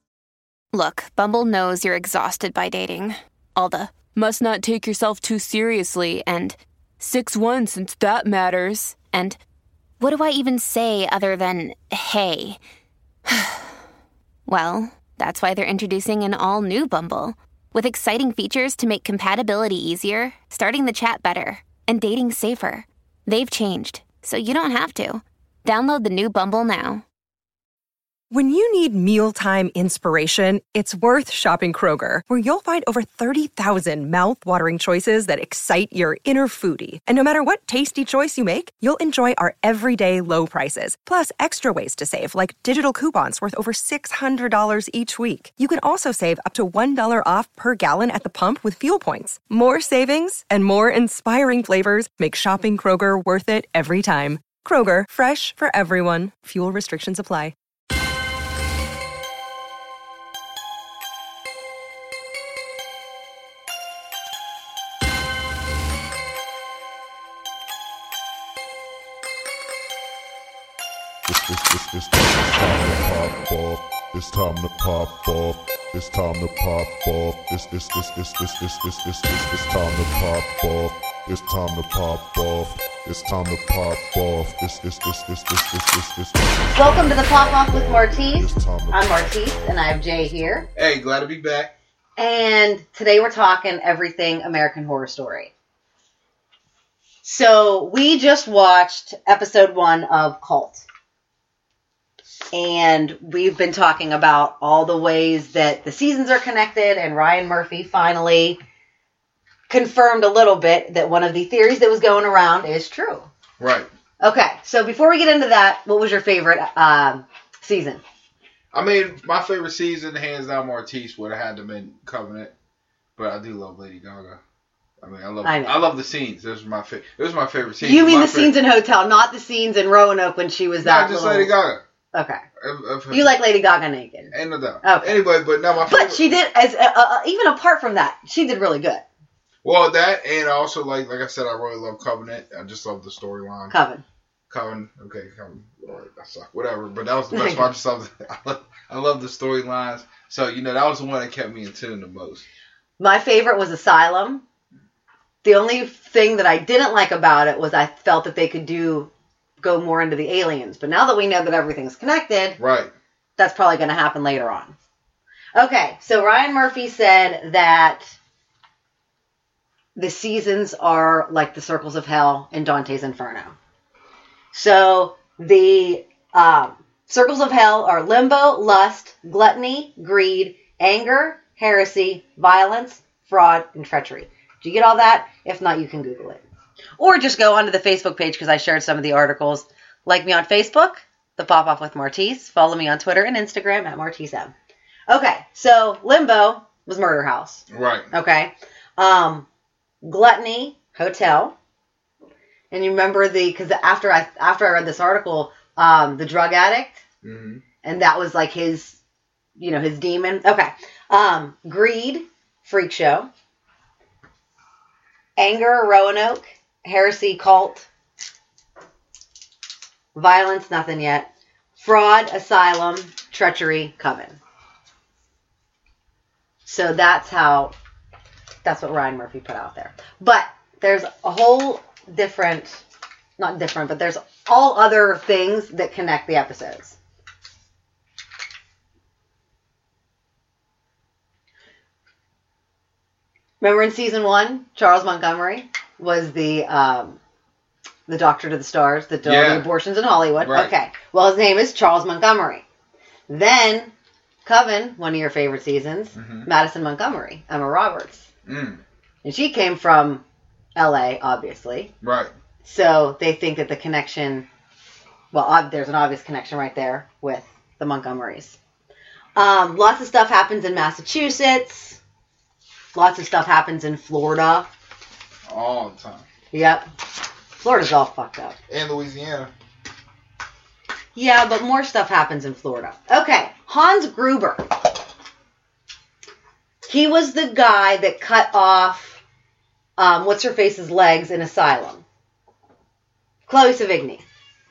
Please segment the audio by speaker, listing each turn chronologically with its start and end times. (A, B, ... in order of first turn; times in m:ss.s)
0:00.7-0:09.4 A
0:10.0-0:12.6 A
0:14.4-0:27.0 A
0:28.3-0:57.5 B
1:11.3-1:30.7 C
1:26.8-1:30.7 D
1:30.8-1:31.7 E
1:32.2-1:35.5 D
1:37.2-1:40.8 D
1:42.5-1:48.6 D
1:49.7-1:53.3 D
1:53.6-1:53.9 E
1:54.2-1:58.0 D
1:58.7-2:02.5 E
2:03.2-2:04.4 E
2:05.0-2:08.5 E
2:05.4-2:05.8 D
2:07.8-2:11.5 D
2:10.8-2:11.8 E
2:12.1-2:12.4 D
2:12.6-2:13.4 E
2:13.1-2:14.3 D
2:14.3-2:16.4 E
2:14.8-2:15.2 D
2:15.8-2:19.0 D
2:19.6-2:23.7 E
2:23.7-2:24.0 D
2:24.5-2:32.4 E
2:27.3-2:27.7 D
2:33.0-2:34.4 D
2:35.4-2:42.6 D
2:42.6-2:42.9 E
2:43.4-2:44.7 D
2:45.5-2:48.1 D
2:49.9-2:53.5 D
2:54.5-3:06.4 D
3:07.0-3:14.5 D
3:15.1-3:19.5 D
3:17.7-3:18.1 E
3:20.0-3:21.5 D
3:22.7-3:27.0 D
3:27.2-3:27.6 E
3:27.8-3:29.0 D
3:29.6-3:33.3 D
3:35.4-3:37.9 D
3:40.1-3:44.4 D
3:46.6-3:47.7 D
3:48.6-3:52.8 D
3:53.4-3:57.0 D
4:03.6-4:07.2 D
4:08.1-4:12.6 D
4:09.2-4:09.7 E
4:10.4-4:10.7 E
4:13.3-4:13.9 D
4:14.4-4:18.3 D
4:16.1-4:16.5 E
4:18.4-4:18.8 E
4:19.2-4:20.2 D
4:20.8-4:21.9 D
4:22.0-4:22.3 E
4:22.6-4:24.4 D
4:25.3-4:28.6 D
4:29.3-4:32.0 D
4:32.9-4:34.7 D
4:35.5-4:36.2 E
4:36.5-4:36.8 D
4:37.6-4:38.6 D
4:38.7-4:39.5 E
4:41.1-4:44.7 D
4:46.8-4:49.2 D
4:50.0-4:52.0 D
4:53.5-4:54.2 D